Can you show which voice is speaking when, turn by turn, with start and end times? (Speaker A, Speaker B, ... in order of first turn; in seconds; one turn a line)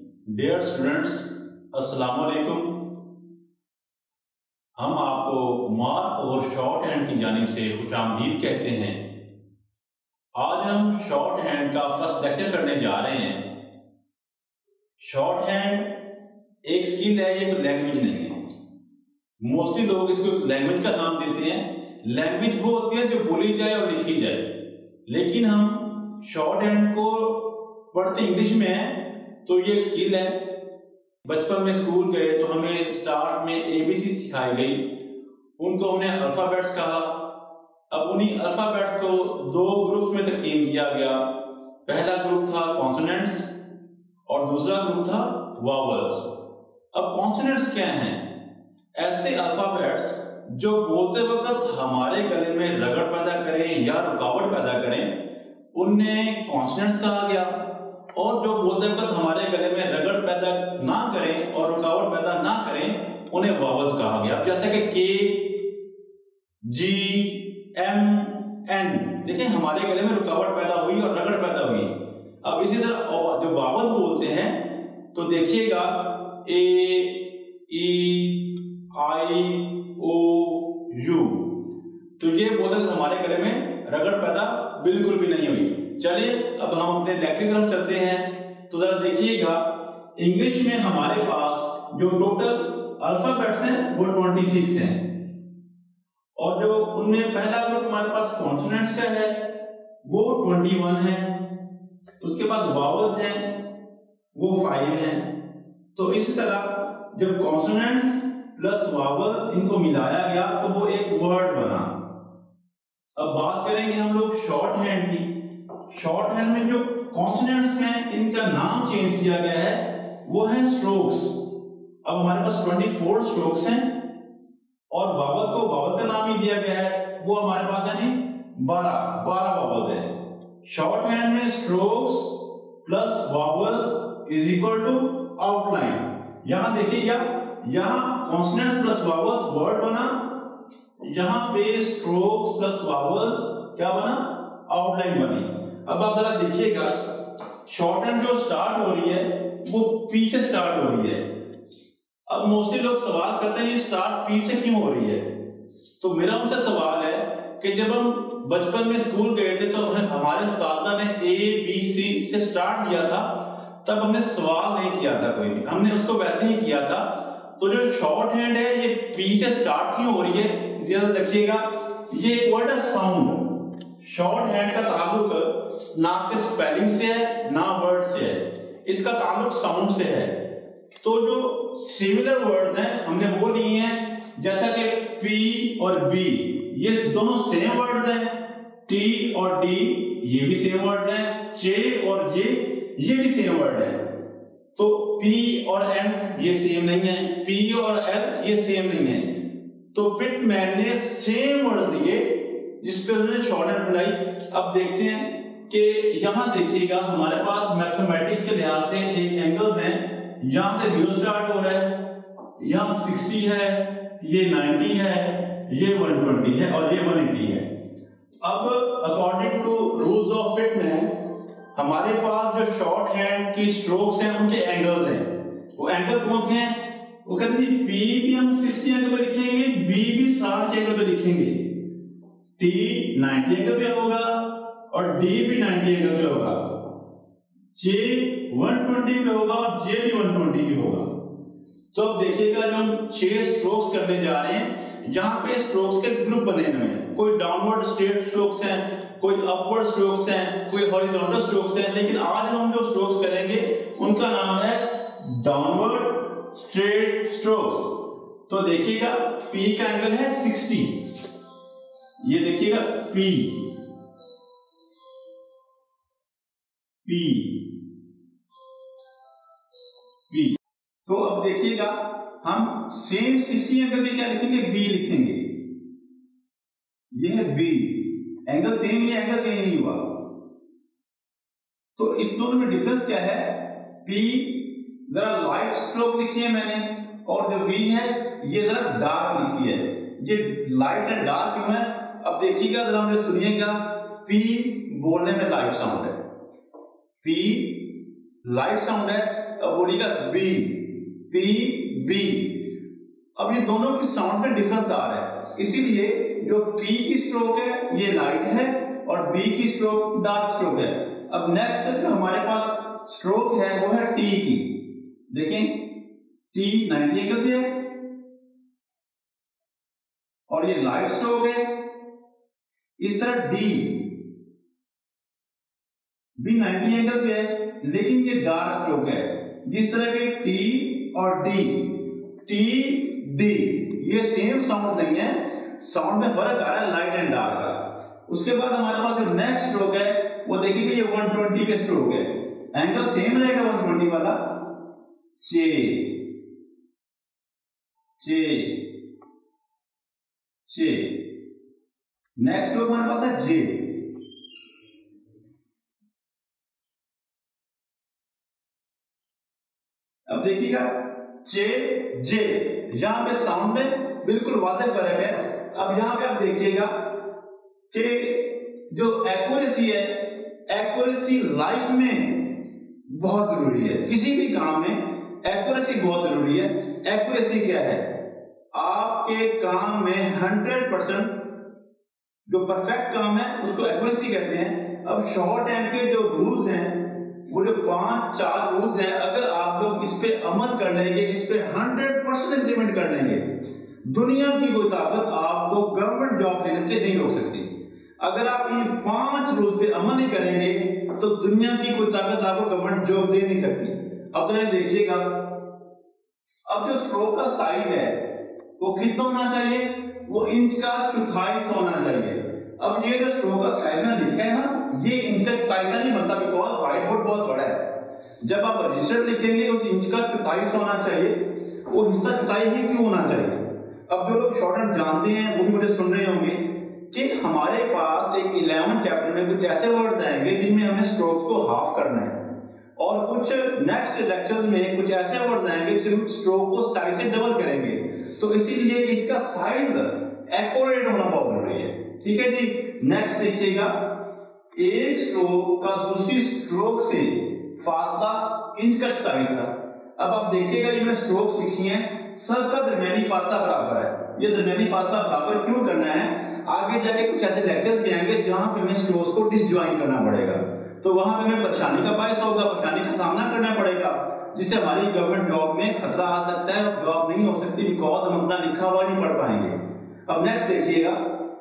Speaker A: 0.3-2.8
Speaker A: 4.8-9.0
Speaker A: 10.4-13.4
Speaker A: 15.0-16.0
Speaker A: 16.6-18.5
Speaker A: 19.4-24.5
Speaker A: 25.1-30.5
Speaker A: 31.2-34.9
Speaker A: 35.6-37.3
Speaker A: 37.9-43.5
Speaker A: 44.3-46.3
Speaker A: 46.9-48.2
Speaker A: 49.0-55.2
Speaker A: 55.7-65.6
Speaker A: 66.7-81.6
Speaker A: 82.2-95.0
Speaker A: 96.4-99.5
Speaker A: 100.0-101.4
Speaker A: 102.2-103.6
Speaker A: 104.3-105.3
Speaker A: 106.0-112.0
Speaker A: 113.2-115.3
Speaker A: 115.9-121.4
Speaker A: 122.0-124.0
Speaker A: 124.9-130.1
Speaker A: 130.7-140.3
Speaker A: 141.1-147.1
Speaker A: 147.7-151.2
Speaker A: 152.3-155.3
Speaker A: 156.0-180.4
Speaker A: 181.0-194.1
Speaker A: 194.8-199.4
Speaker A: 199.9-212.0
Speaker A: 212.6-217.7
Speaker A: 218.4-231.7
Speaker A: 232.6-236.8
Speaker A: 237.8-241.1
Speaker A: 241.9-261.0
Speaker A: 262.2-263.7
Speaker A: 267.1-267.6
Speaker A: 270.3-275.5
Speaker A: 277.1-280.1
Speaker A: 282.0-296.2
Speaker A: 297.2-297.9
Speaker A: 298.4-302.6
Speaker A: 303.4-314.7
Speaker A: 315.3-315.9
Speaker A: 316.5-317.9
Speaker A: 320.5-321.8
Speaker A: 323.0-324.1
Speaker A: 326.4-344.6
Speaker A: 345.4-346.2
Speaker A: 348.2-348.9
Speaker A: 350.7-351.2
Speaker A: 352.4-353.9
Speaker A: 360.3-367.1
Speaker A: 367.9-372.5
Speaker A: 373.1-378.1
Speaker A: 378.7-381.4
Speaker A: 382.5-393.5
Speaker A: 394.1-397.7
Speaker A: 398.2-405.5
Speaker A: 406.7-408.2
Speaker A: 408.8-432.4
Speaker A: 433.0-444.2
Speaker A: 444.8-471.3